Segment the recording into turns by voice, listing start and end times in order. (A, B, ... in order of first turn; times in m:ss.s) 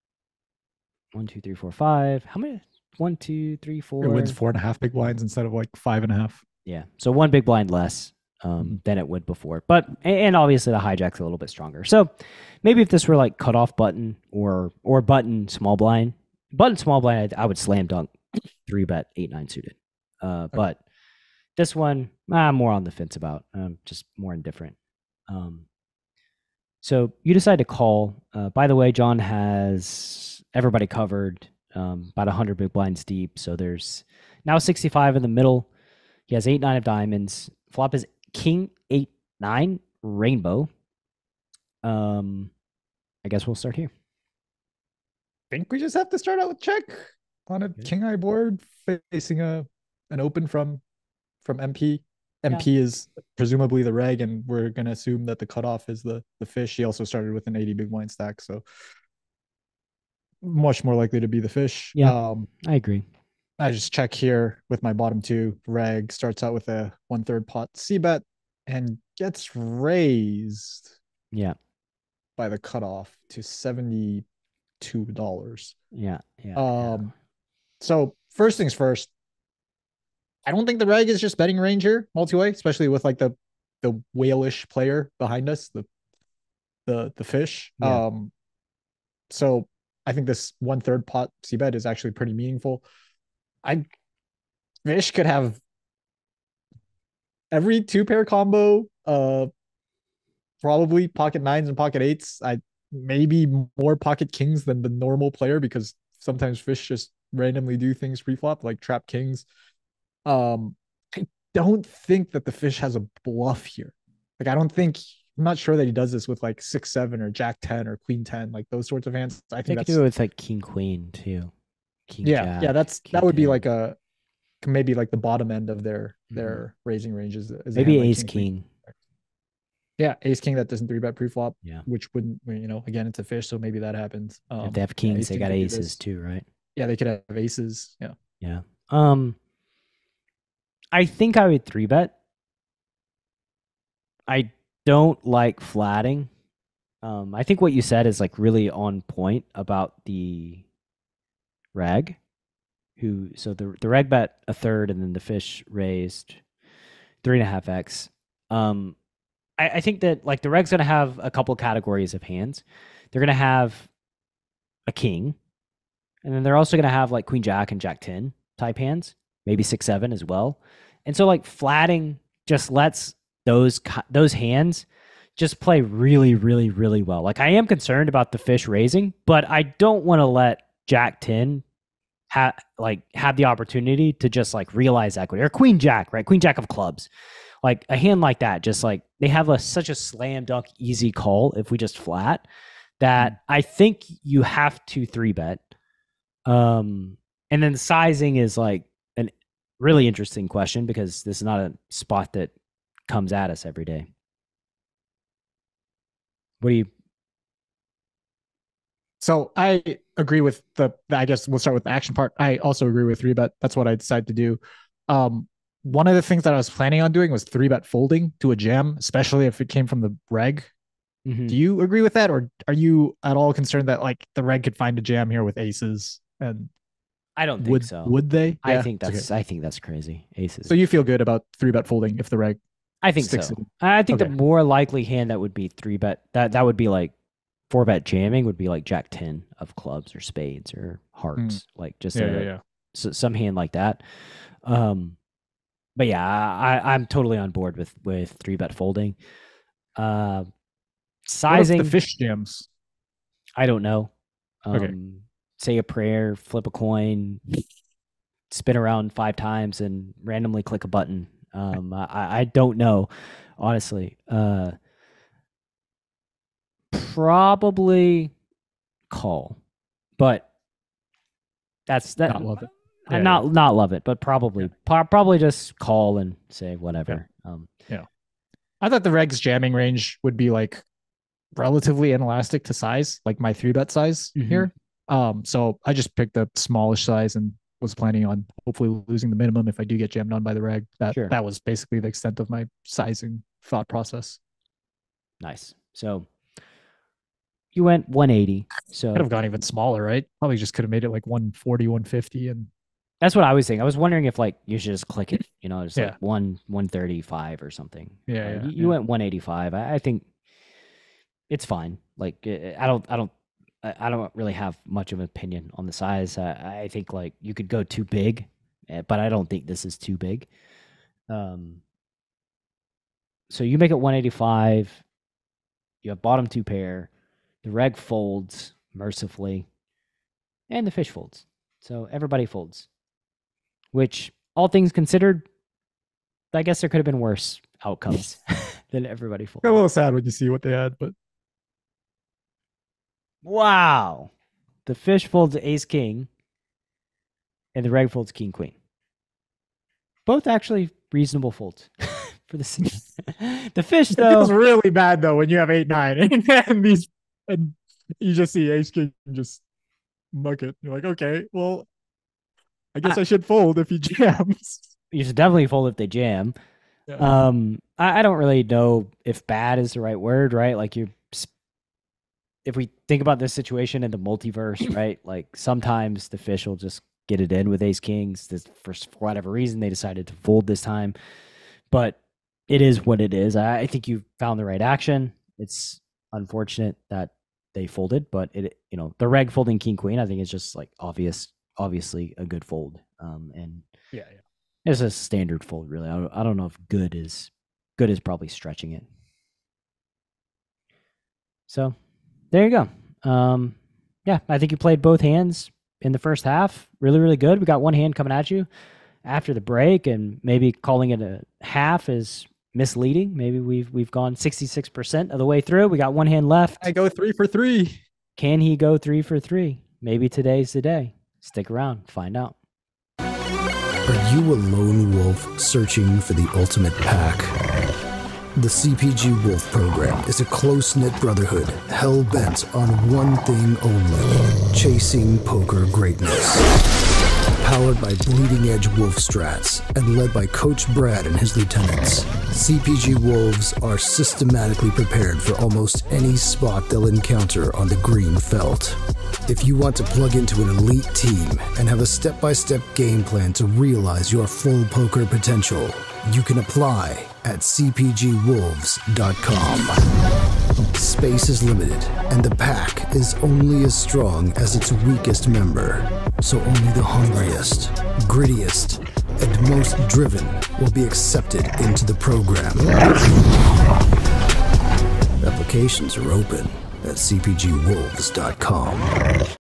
0:01.1-0:04.4 A
0:04.0-0:06.4 B
0:06.7-0:12.1 A
0:12.6-0:20.8 A
0:21.6-0:24.8 A
0:25.3-0:25.6 A
0:26.8-0:35.7 A
0:36.3-0:40.7 A
0:41.8-0:42.5 A
0:43.2-0:43.9 A
0:45.5-0:50.8 B
0:51.4-0:58.6 B
1:00.4-1:02.5 B
1:02.0-1:03.0 A
1:03.6-1:10.9 B
1:12.4-1:14.2 B
1:14.8-1:15.8 B
1:15.9-1:17.1 A
1:16.6-1:17.1 B
1:17.8-1:19.1 B
1:20.4-1:25.9 B
1:26.9-1:28.3 B
1:29.3-1:32.8 B
1:34.8-1:35.6 B
1:37.5-1:39.5 B
1:40.6-1:49.4 B
1:50.3-2:00.0 B
1:59.7-2:01.5 A
2:02.1-2:03.6 A
2:02.2-2:04.0 B
2:04.6-2:08.9 B
2:06.3-2:06.6 A
2:07.8-2:08.7 A
2:10.0-2:16.0 B
2:14.6-2:16.4 A
2:16.8-2:18.1 B
2:18.4-2:19.4 A
2:20.9-2:22.1 A
2:24.3-2:26.3 A
2:27.0-2:30.6 A
2:31.8-2:32.2 A
2:33.0-2:36.4 A
2:37.2-2:39.0 A
2:39.6-2:43.9 A
2:44.9-2:45.4 A
2:46.2-2:54.9 A
2:55.4-3:01.6 A
3:02.3-3:07.1 A
3:07.6-3:12.4 A
3:13.0-3:15.6 A
3:16.5-3:22.5 A
3:23.1-3:24.1 A
3:26.6-3:26.9 A
3:29.2-3:40.7 B
3:41.3-3:41.6 A
3:41.5-3:46.7 B
3:47.4-3:50.8 A
3:47.6-3:49.3 B
3:50.7-3:52.6 B
3:53.0-3:57.1 A
3:53.2-3:54.3 B
3:57.7-4:04.0 A
4:02.1-4:02.6 B
4:04.6-4:05.2 A
4:06.0-4:09.2 A
4:10.0-4:10.5 A
4:11.3-4:12.0 A
4:11.5-4:12.7 B
4:13.6-4:14.1 A
4:14.6-4:17.4 A
4:18.5-4:24.8 A
4:26.9-4:28.3 A
4:29.1-4:29.6 A
4:30.2-4:30.5 A
4:31.9-4:32.5 A
4:32.3-4:33.4 B
4:33.1-4:37.7 A
4:38.8-4:40.8 B
4:41.6-4:54.4 B
4:44.4-4:44.7 A
4:51.1-4:51.3 A
4:55.4-4:56.3 A
4:57.7-4:59.3 A
4:59.2-5:02.7 B
5:03.2-5:10.3 A
5:08.3-5:09.0 B
5:11.5-5:20.5 A
5:21.3-5:21.8 A
5:23.5-5:25.0 A
5:26.0-5:27.1 A
5:27.6-5:29.7 A
5:30.7-5:32.9 A
5:33.9-5:35.4 A
5:36.5-5:39.8 A
5:39.6-5:41.1 B
5:43.4-5:44.3 A
5:44.8-5:46.3 A
5:47.8-5:48.7 A
5:50.3-5:54.5 A
5:54.1-5:59.6 B
6:00.3-6:01.9 B
6:02.9-6:04.9 B
6:05.1-6:06.5 A
6:07.1-6:07.4 B
6:07.2-6:11.5 A
6:12.6-6:21.2 A
6:21.9-6:22.2 A
6:22.7-6:33.8 A
6:34.1-6:34.4 B
6:34.9-6:39.0 A
6:41.7-6:42.0 A
6:42.5-6:48.7 A
6:49.2-6:56.8 A
6:56.8-6:58.0 B
6:58.4-7:02.6 A
7:04.1-7:07.5 C
7:08.6-7:16.7 C
7:17.6-7:40.0 C
7:40.9-7:53.2 C
7:55.4-7:59.1 C